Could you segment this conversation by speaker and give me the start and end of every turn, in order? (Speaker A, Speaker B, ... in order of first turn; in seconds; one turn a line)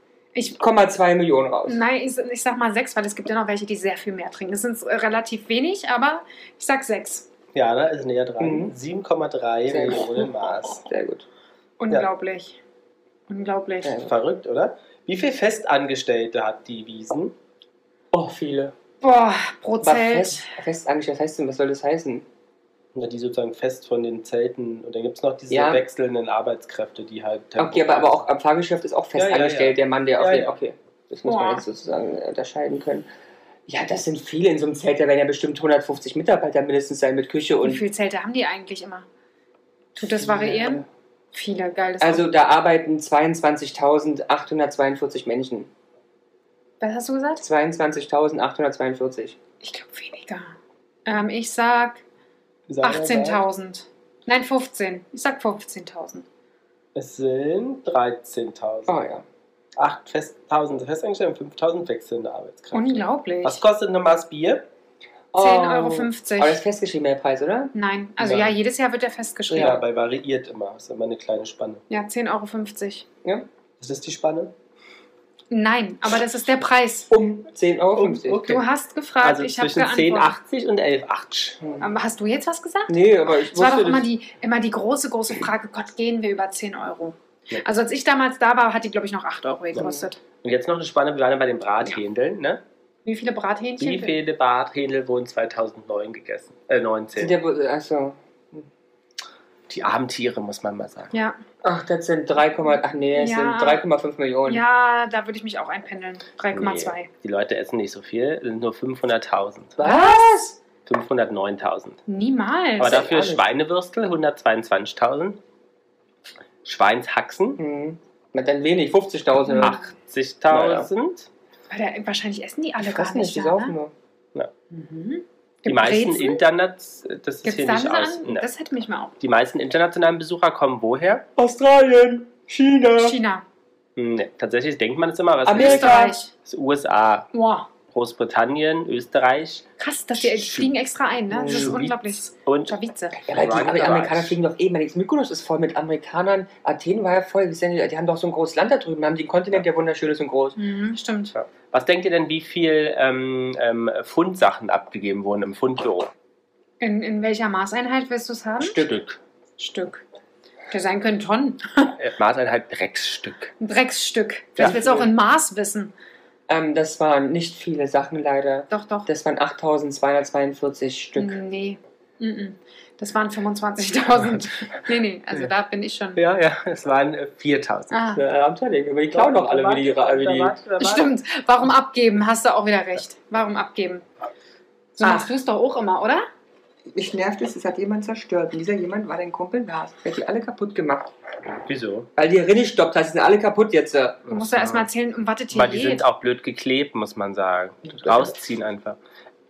Speaker A: 0.6-1.8
Speaker B: 1.7-7.3
Speaker C: 7.5-10.8
Speaker A: 8.4-8.7
Speaker A: 9.7-11.3
Speaker B: 11.8-12.6
Speaker B: 13.3-14.0
Speaker A: 13.8-14.1
Speaker C: 14.0-17.4
Speaker A: 18.1-18.7
Speaker B: 19.0-20.5
Speaker A: 19.8-22.2
Speaker C: 22.9-28.3
Speaker A: 25.5-25.8
Speaker A: 27.6-33.1
Speaker C: 29.2-30.6
Speaker B: 31.3-31.6
Speaker A: 33.7-37.8
Speaker B: 37.6-39.1
Speaker B: 40.0-42.3
Speaker A: 40.0-40.9
Speaker A: 42.0-45.7
Speaker B: 46.8-47.4
Speaker A: 47.4-49.4
Speaker B: 49.6-52.0
Speaker C: 52.7-53.4
Speaker B: 52.8-56.2
Speaker C: 57.0-59.0
Speaker A: 58.9-59.2
Speaker C: 59.8-64.7
Speaker B: 62.7-63.6
Speaker A: 65.3-67.7
Speaker B: 65.4-66.6
Speaker B: 67.7-69.8
Speaker C: 68.2-68.5
Speaker A: 69.5-69.8
Speaker C: 69.5-71.8
Speaker B: 71.9-73.0
Speaker C: 73.8-74.5
Speaker B: 75.5-77.1
Speaker A: 77.1-78.5
Speaker C: 78.0-78.7
Speaker B: 78.4-80.3
Speaker C: 79.2-81.6
Speaker A: 81.6-81.9
Speaker B: 81.8-83.0
Speaker A: 82.9-84.1
Speaker B: 83.5-90.2
Speaker A: 89.8-90.1
Speaker C: 90.4-92.6
Speaker B: 93.0-94.2
Speaker C: 93.8-97.4
Speaker A: 97.2-98.7
Speaker C: 99.7-101.1
Speaker B: 101.1-101.4
Speaker A: 101.6-104.6
Speaker B: 103.2-103.8
Speaker B: 104.5-107.1
Speaker C: 106.5-109.8
Speaker A: 109.8-110.6
Speaker B: 109.8-110.5
Speaker C: 110.9-112.0
Speaker B: 112.1-113.1
Speaker C: 112.8-115.4
Speaker A: 112.8-113.5
Speaker C: 116.6-117.6
Speaker A: 117.6-119.8
Speaker B: 119.5-119.9
Speaker C: 119.6-121.3
Speaker A: 120.5-120.9
Speaker B: 121.7-123.8
Speaker A: 122.8-123.9
Speaker B: 124.7-126.4
Speaker C: 125.7-128.5
Speaker B: 127.4-129.2
Speaker C: 129.2-131.3
Speaker A: 131.4-133.2
Speaker B: 133.0-133.4
Speaker C: 134.0-137.3
Speaker A: 135.5-136.2
Speaker B: 135.5-136.3
Speaker B: 137.3-137.7
Speaker C: 137.9-140.7
Speaker B: 139.8-143.2
Speaker A: 141.3-141.8
Speaker C: 141.5-142.8
Speaker A: 143.2-150.6
Speaker C: 143.3-144.4
Speaker B: 150.6-151.3
Speaker C: 151.3-156.1
Speaker B: 156.8-158.9
Speaker A: 158.7-159.0
Speaker C: 158.8-159.2
Speaker B: 159.6-160.0
Speaker B: 160.7-161.9
Speaker C: 162.0-163.5
Speaker B: 163.6-165.9
Speaker A: 164.6-165.1
Speaker A: 166.5-171.4
Speaker B: 168.7-169.1
Speaker B: 171.2-176.2
Speaker C: 176.2-177.9
Speaker B: 177.9-178.2
Speaker A: 178.2-180.5
Speaker C: 179.1-181.1
Speaker B: 180.8-184.1
Speaker B: 185.0-186.3
Speaker A: 185.0-185.3
Speaker A: 186.9-191.1
Speaker C: 191.7-192.1
Speaker A: 192.2-194.2
Speaker C: 194.3-194.9
Speaker B: 194.3-196.0
Speaker C: 195.5-199.0
Speaker A: 197.9-198.3